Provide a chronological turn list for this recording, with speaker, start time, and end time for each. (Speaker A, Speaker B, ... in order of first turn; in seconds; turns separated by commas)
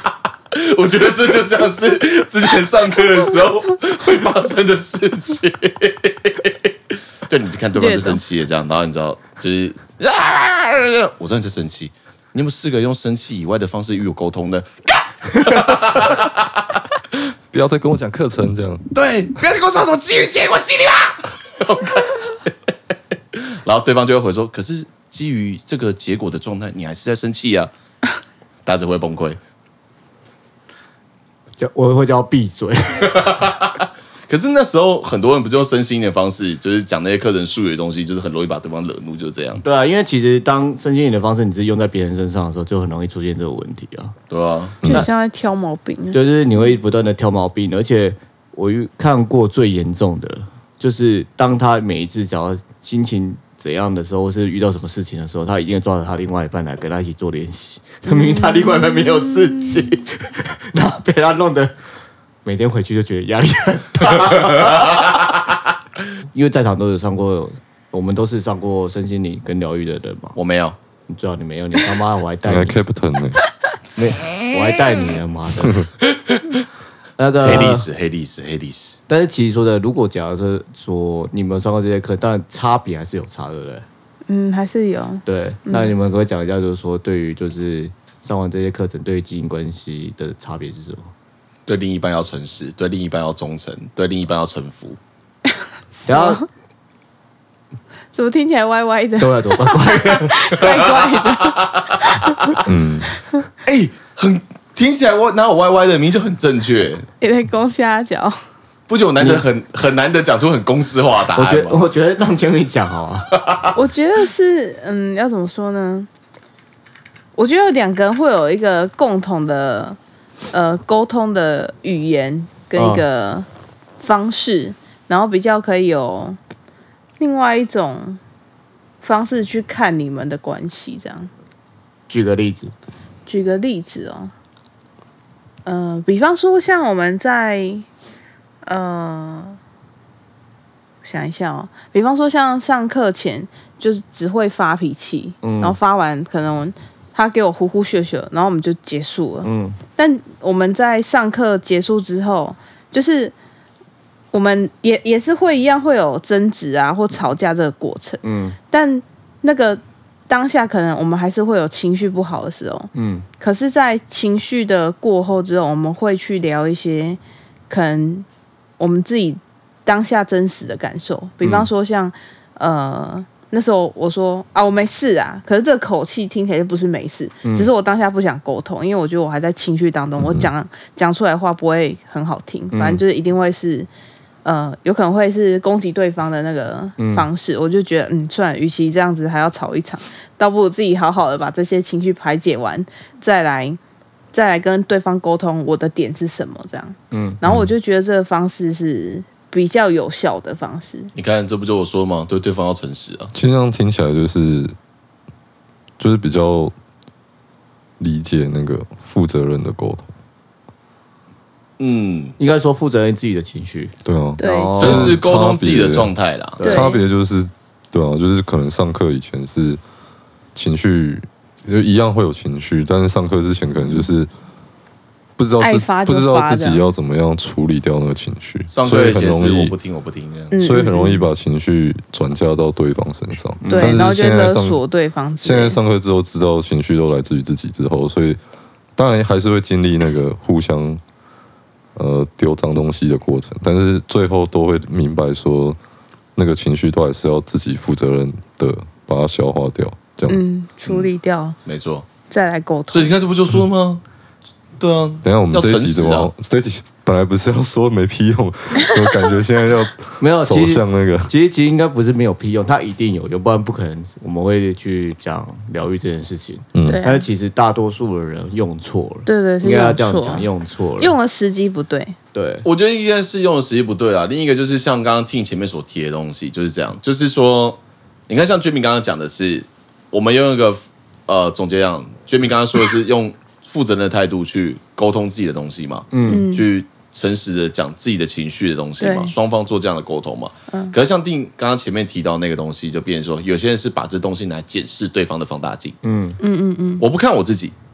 Speaker A: 0.5-6.7, Speaker A: 7.2-16.6, Speaker B: 7.8-8.2, Speaker C: 17.5-18.9, Speaker A: 18.9-22.5, Speaker A: 23.3-27.7, Speaker A: 28.6-29.4, Speaker D: 31.6-33.5, Speaker A: 33.1-39.6, Speaker D: 39.6-44.1, Speaker A: 44.3-44.8, Speaker C: 44.8-45.1, Speaker D: 44.8-45.1, Speaker B: 44.8-46.2, Speaker D: 46.1-61.7, Speaker B: 58.3-58.6, Speaker D: 62.4-65.1, Speaker A: 64.4-65.2, Speaker D: 66.3-70.4, Speaker A: 70.3-70.8, Speaker D: 71.1-72.8, Speaker C: 72.4-73.4, Speaker D: 74.0-75.9, Speaker A: 76.1-76.6, Speaker D: 77.2-77.9, Speaker A: 77.4-79.0, Speaker D: 79.1-83.8, Speaker B: 84.3-85.9, Speaker D: 85.2-91.1, Speaker A: 91.7-95.0, Speaker B: 96.0-96.5, Speaker D: 96.1-96.4, Speaker B: 98.1-102.6, Speaker D: 99.2-100.5, Speaker A: 100.6-102.5, Speaker C: 102.6-103.1, Speaker A: 103.6-107.1, Speaker B: 107.2-108.4, Speaker A: 108.9-111.8, Speaker D: 109.2-109.4, Speaker D: 111.3-113.3, Speaker A: 113.3-113.7, Speaker B: 113.7-116.1, Speaker B: 117.3-120.0, Speaker B: 120.5-123.5, Speaker D: 122.7-123.0, Speaker B: 124.0-126.4, Speaker B: 127.2-128.2, Speaker B: 129.0-131.3, Speaker D: 132.1-132.7, Speaker B: 133.2-134.3, Speaker B: 135.6-137.8, Speaker B: 138.6-139.6, Speaker B: 141.0-153.3, Speaker D: 145.4-145.8, Speaker D: 149.4-149.8, Speaker B: 154.3-167.2, Speaker D: 158.2-158.6, Speaker D: 162.9-163.2, Speaker B: 167.7-168.2, Speaker B: 168.8-183.9, Speaker D: 171.4-171.7, Speaker D: 177.4-177.7, Speaker C: 180.2-180.5, Speaker D: 182.7-183.0, Speaker B: 184.4-193.8, Speaker D: 187.0-187.2, Speaker B: 194.3-201.1, Speaker D: 197.1-197.4, Speaker A: 201.2-203.3, Speaker C: 203.3-204.7, Speaker C: 206.0-206.7, Speaker C: 208.0-210.1, Speaker A: 211.8-212.3, Speaker D: 212.4-215.2, Speaker C: 214.0-219.8, Speaker B: 214.4-214.8, Speaker A: 214.8-216.6, Speaker D: 216.6-216.9, Speaker B: 216.6-217.0, Speaker C: 220.5-224.3, Speaker C: 225.4-229.7, Speaker B: 225.6-226.8, Speaker A: 228.7-230.5, Speaker B: 230.5-231.3, Speaker C: 230.5-234.8, Speaker D: 233.6-234.0, Speaker B: 233.7-235.8, Speaker C: 235.4-238.4, Speaker C: 238.9-241.0, Speaker C: 241.9-245.8, Speaker C: 246.3-250.4, Speaker B: 250.3-251.6, Speaker A: 251.6-252.1, Speaker B: 252.3-253.1, Speaker A: 252.9-254.0, Speaker A: 254.8-256.3, Speaker C: 255.2-261.3, Speaker D: 260.2-271.1, Speaker C: 266.7-267.0, Speaker B: 266.8-267.2, Speaker B: 269.2-272.1, Speaker D: 272.3-272.6, Speaker A: 272.6-296.0, Speaker D: 286.1-286.4, Speaker B: 286.3-286.7, Speaker B: 289.0-289.3, Speaker D: 296.0-296.4, Speaker B: 296.4-297.0, Speaker A: 297.0-297.7